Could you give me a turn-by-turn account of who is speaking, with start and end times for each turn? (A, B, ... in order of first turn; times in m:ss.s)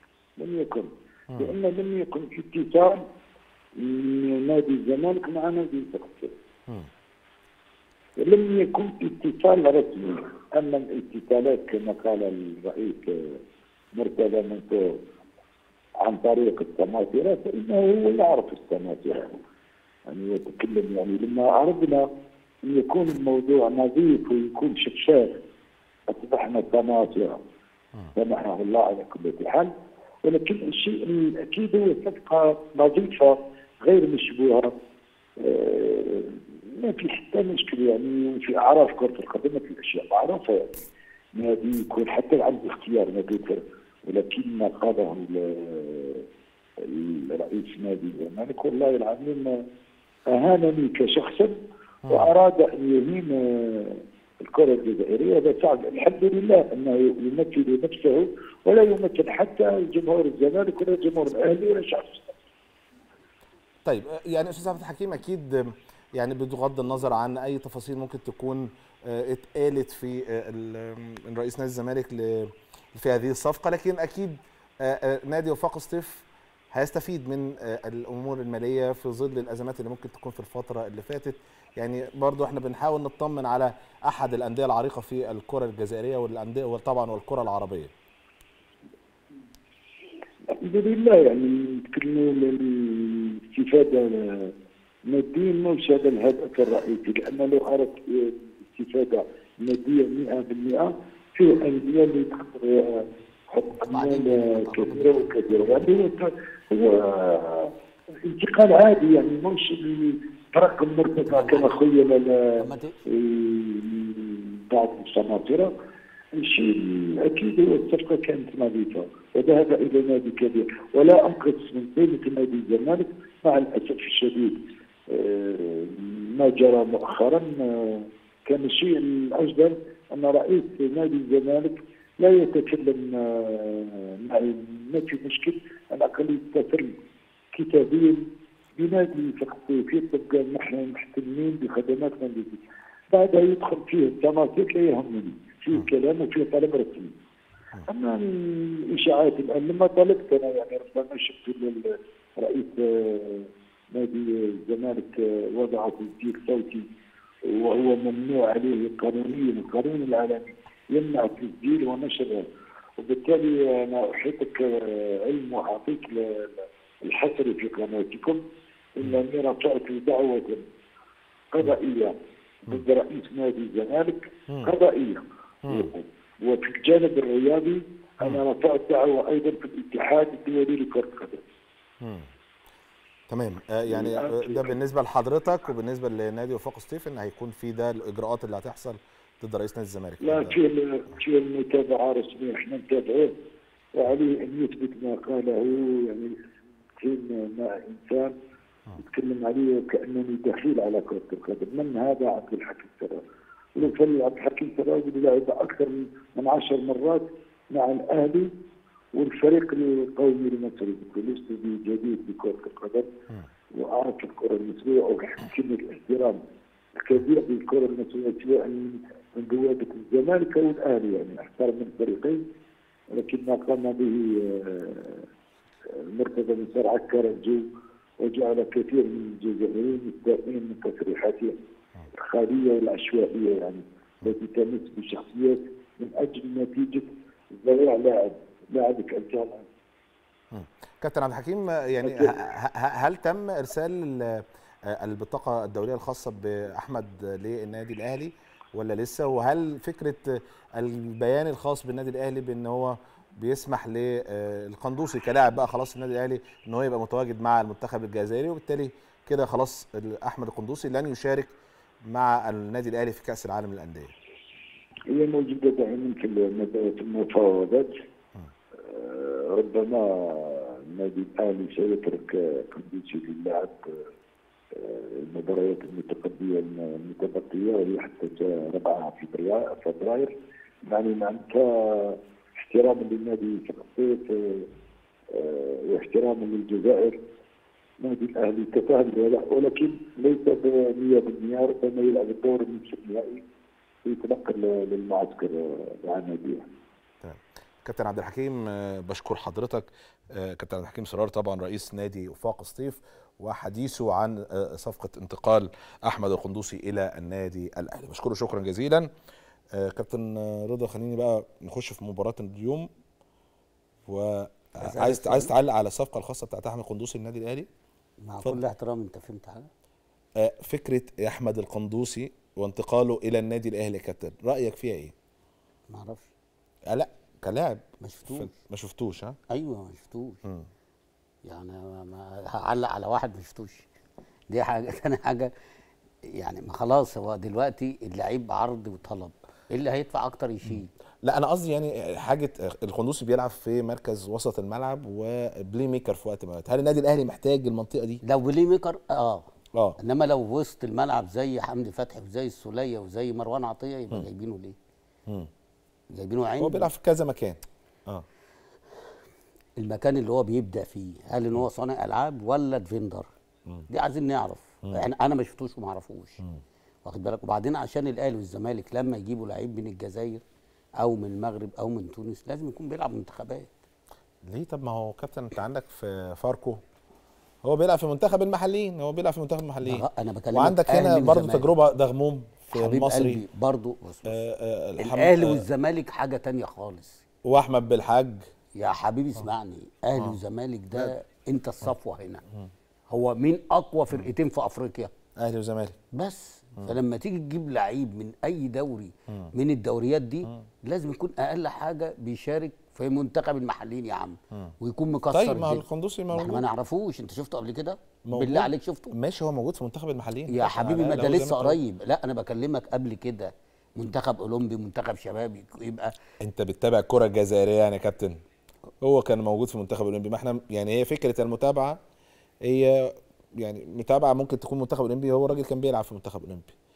0:00.4-0:03.0 A
0:03.8-0:06.3 A
0:08.2-0:13.4 A
0:13.9-0:15.0 A
0:16.0-0:19.4 A
0:20.1-0:22.1 A
0:22.6-0:25.4 A
0:26.1-0:27.4 A
0:28.2-0:29.7 A
0:30.2-0:34.7 A
0:35.4-0:46.2 A
0:46.8-0:49.6 A
0:50.3-1:02.3 A
0:52.0-0:52.3 B
1:03.8-1:27.9 B
1:30.5-1:34.5 A
1:35.1-1:47.7 A
1:43.9-1:45.9 C
1:48.2-1:55.7 A
1:51.3-1:51.8 C
1:52.6-1:53.0 C
1:56.3-2:04.6 A
2:05.1-2:16.9 A
2:17.5-2:22.6 A
2:23.1-2:27.1 A
2:27.9-2:36.9 A
2:37.5-2:42.5 A
2:43.0-2:48.4 A
2:48.9-2:50.6 A
2:51.5-3:01.4 A
2:54.5-2:54.7 B
2:55.6-2:55.9 B
3:02.0-3:02.3 B
3:03.3-3:10.6 B
3:03.9-3:04.7 A
3:10.2-3:13.3 A
3:13.9-3:16.4 A
3:17.0-3:18.3 A
3:19.0-3:23.2 A
3:23.7-3:28.5 A
3:29.1-3:33.1 A
3:33.7-3:36.4 A
3:37.0-3:42.4 A
3:43.1-3:45.2 A
3:46.1-3:47.6 A
3:48.2-3:51.6 A
3:52.1-3:59.6 A
4:00.5-4:21.5 B
4:02.0-4:02.3 A
4:22.0-4:24.1 B
4:25.1-4:28.0 A
4:28.8-4:34.1 A
4:34.7-4:40.3 A
4:40.9-4:44.7 A
4:45.3-4:47.2 A
4:48.0-4:53.4 A
4:54.0-4:56.7 A
4:57.2-5:09.1 B
5:09.7-5:12.9 B
5:14.1-5:17.7 B
5:14.8-5:15.5 C
5:18.2-5:19.7 C
5:20.4-5:25.1 B
5:25.9-5:26.3 C
5:26.9-5:29.4 B
5:28.0-5:28.5 C
5:29.5-5:30.4 C
5:31.4-5:33.8 C
5:34.5-5:35.5 C
5:36.3-5:40.9 C
5:40.6-5:48.2 B
5:48.2-5:49.5 C
5:50.0-5:54.8 C
5:56.1-5:56.9 C
5:56.6-5:58.2 B
5:59.8-6:03.3 C
6:03.9-6:06.4 C
6:07.0-6:10.4 C
6:11.0-6:13.7 C
6:14.4-6:16.8 B
6:17.6-6:23.4 B
6:19.8-6:21.7 C
6:22.7-6:24.4 C
6:24.2-6:25.6 B
6:25.0-6:27.2 C
6:27.4-6:28.5 B
6:28.8-6:32.4 C
6:33.1-6:35.1 C
6:35.4-6:36.0 B
6:36.1-6:49.1 C
6:45.3-6:46.6 B
6:48.3-6:51.8 B
6:50.5-6:56.1 C
6:56.4-6:58.4 B
6:59.0-7:02.0 B
7:02.6-7:06.7 B